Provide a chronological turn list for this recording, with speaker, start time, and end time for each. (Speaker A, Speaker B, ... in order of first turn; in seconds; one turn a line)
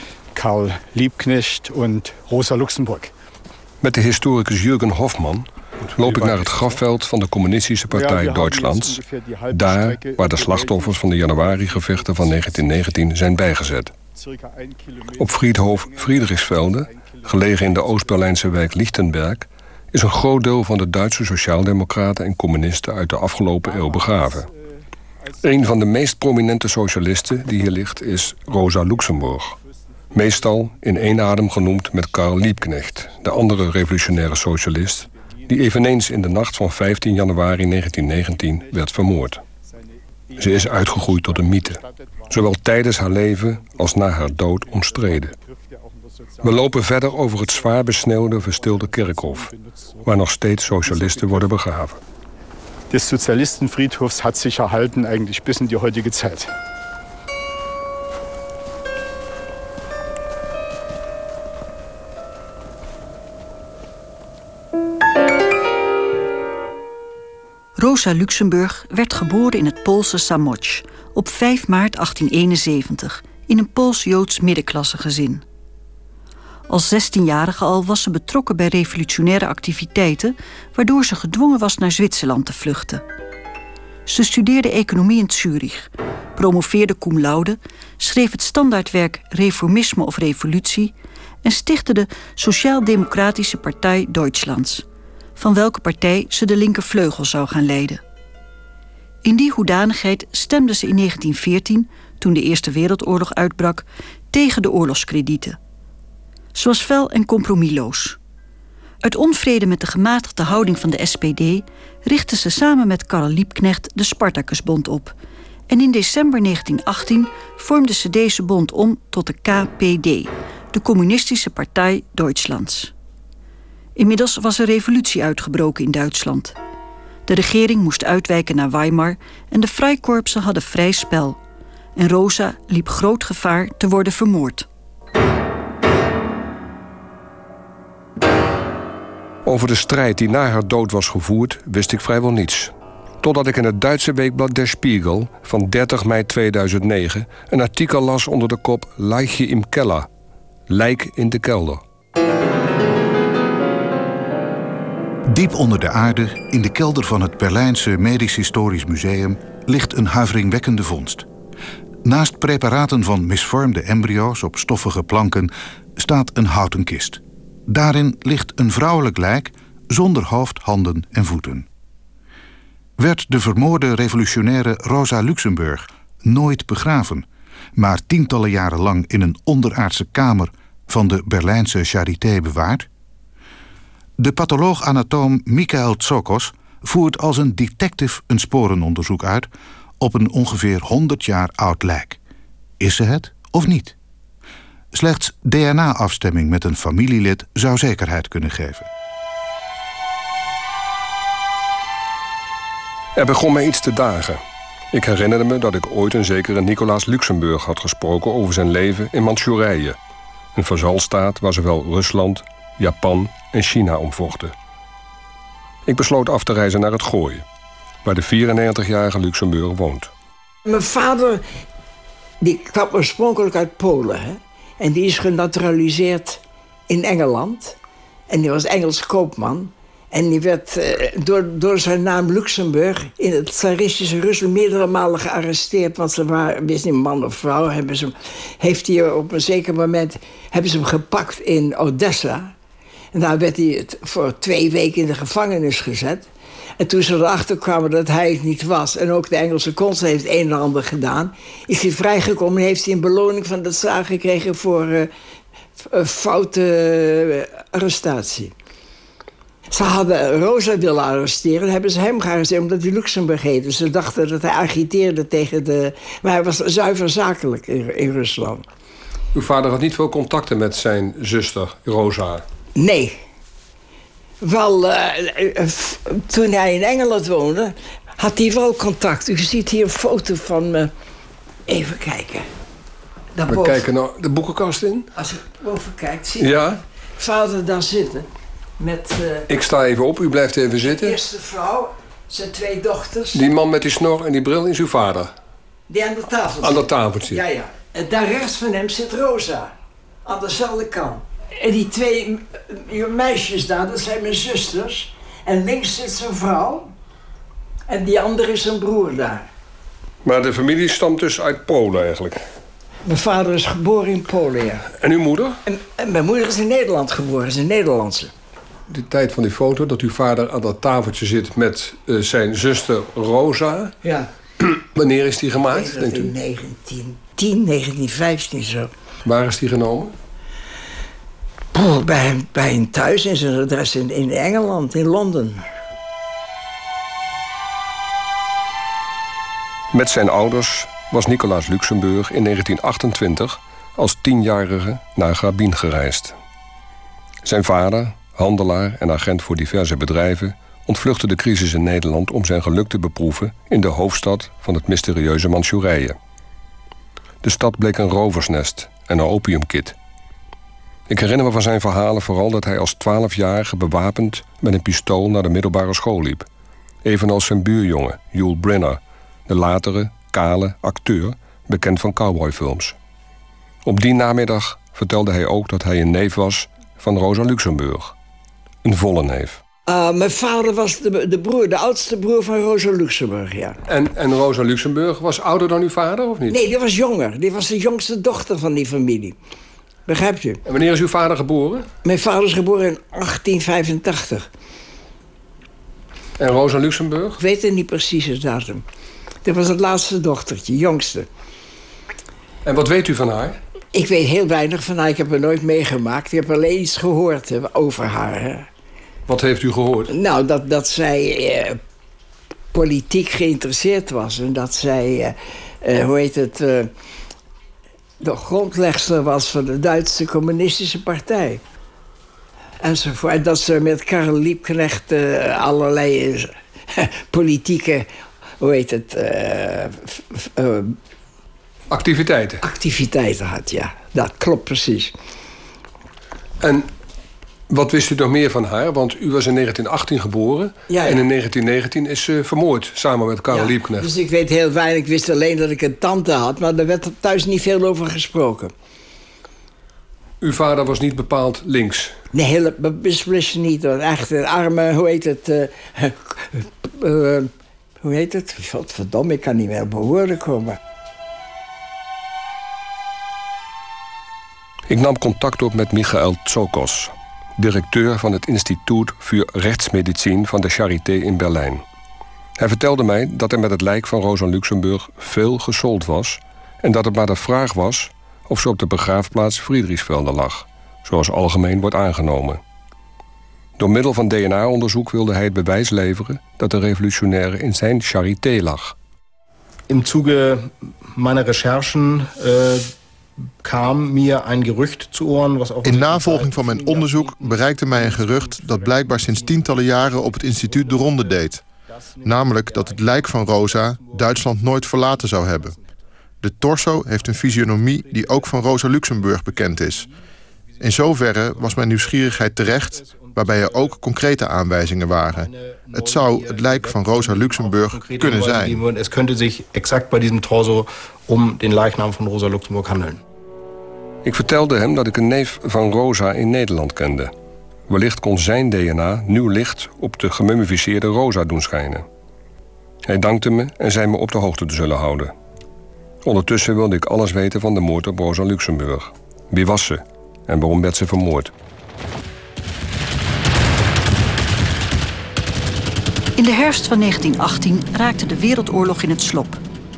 Speaker A: 0.3-3.1
Speaker B: 3.8-9.0
Speaker A: 6.0-6.8
Speaker A: 7.9-13.1
Speaker B: 9.5-13.9
Speaker A: 14.1-18.7
Speaker B: 15.2-24.5
Speaker A: 23.6-25.8
Speaker B: 25.4-29.5
Speaker A: 29.6-32.3
Speaker B: 30.1-39.4
Speaker A: 32.9-35.6
Speaker A: 38.2-42.6
Speaker B: 40.4-45.3
Speaker A: 43.6-47.9
Speaker B: 46.4-49.5
Speaker A: 48.4-51.5
Speaker B: 50.0-52.0
Speaker A: 52.9-56.5
Speaker C: 67.8-75.4
Speaker C: 76.7-83.0
Speaker C: 84.0-94.8
Speaker C: 95.4-98.0
Speaker C: 99.2-105.6
Speaker C: 106.5-108.2
Speaker C: 109.0-115.1
Speaker C: 115.7-122.9
Speaker C: 124.0-126.5
Speaker C: 127.3-131.4
Speaker C: 131.9-134.7
Speaker B: 139.4-150.1
Speaker B: 150.7-151.8
Speaker D: 155.3-161.2
Speaker D: 162.0-171.7
Speaker D: 173.0-182.9
Speaker D: 184.2-189.5
Speaker D: 190.0-192.2
Speaker D: 192.8-193.9
Speaker D: 194.9-198.9
Speaker B: 203.2-204.4
Speaker B: 204.9-210.0
Speaker B: 210.5-214.5
Speaker B: 215.8-217.4
Speaker B: 218.0-220.1
Speaker E: 220.6-221.4
Speaker E: 222.4-227.8
Speaker E: 228.3-242.5
Speaker E: 243.1-255.1
Speaker E: 255.8-258.5
Speaker E: 259.7-268.6
Speaker B: 269.3-272.4
Speaker E: 272.8-273.2
Speaker E: 274.4-280.9
Speaker E: 281.7-282.5
Speaker E: 283.3-283.9
Speaker B: 283.5-285.1
Speaker E: 285.1-286.6
Speaker B: 286.4-286.8
Speaker E: 287.2-288.3
Speaker E: 288.8-289.5
Speaker B: 289.5-291.2
Speaker E: 290.8-293.4
Speaker B: 293.3-295.3
Speaker E: 295.9-299.7
Speaker B: 296.6-297.4
Speaker E: 300.2-306.9
Speaker E: 307.9-309.5
Speaker B: 310.2-312.4
Speaker E: 313.1-314.9
Speaker B: 314.9-315.6
Speaker E: 315.6-318.3
Speaker B: 318.9-323.9
Speaker E: 324.0-324.3
Speaker B: 324.6-326.3
Speaker E: 325.7-328.9
Speaker B: 329.2-330.1
Speaker E: 331.7-335.6
Speaker B: 339.9-346.3
Speaker B: 347.4-356.1
Speaker B: 357.4-359.9
Speaker B: 361.1-366.4
Speaker B: 367.0-372.9
Speaker B: 373.8-378.1
Speaker B: 378.8-379.6
Speaker E: 379.9-383.8
Speaker B: 383.9-386.6
Speaker E: 386.5-389.4
Speaker E: 390.1-390.6
Speaker B: 390.6-391.9
Speaker E: 392.0-394.5
Speaker B: 396.4-397.4
Speaker E: 397.4-398.8
Speaker E: 399.4-401.3
Speaker B: 402.6-403.6
Speaker E: 403.9-408.7
Speaker B: 409.3-410.1
Speaker E: 410.1-411.8
Speaker E: 412.7-416.9
Speaker E: 418.2-421.6
Speaker E: 422.8-428.1
Speaker E: 428.6-431.0
Speaker B: 431.9-432.6
Speaker E: 432.6-435.1
Speaker B: 436.6-436.9
Speaker B: 437.7-444.1
Speaker E: 440.9-441.2
Speaker E: 443.5-448.7
Speaker B: 450.4-452.1
Speaker E: 452.3-460.8
Speaker B: 464.9-471.8
Speaker B: 472.6-482.6
Speaker B: 483.8-488.9
Speaker F: 489.9-492.9
Speaker F: 493.6-505.8
Speaker G: 495.8-501.6
Speaker G: 502.2-505.8
Speaker G: 506.4-510.1
Speaker F: 506.8-510.1
Speaker G: 510.8-518.8
Speaker F: 510.8-523.2
Speaker B: 524.2-527.3
Speaker B: 527.9-532.0
Speaker B: 533.0-535.3
Speaker B: 536.2-541.5
Speaker C: 546.4-549.6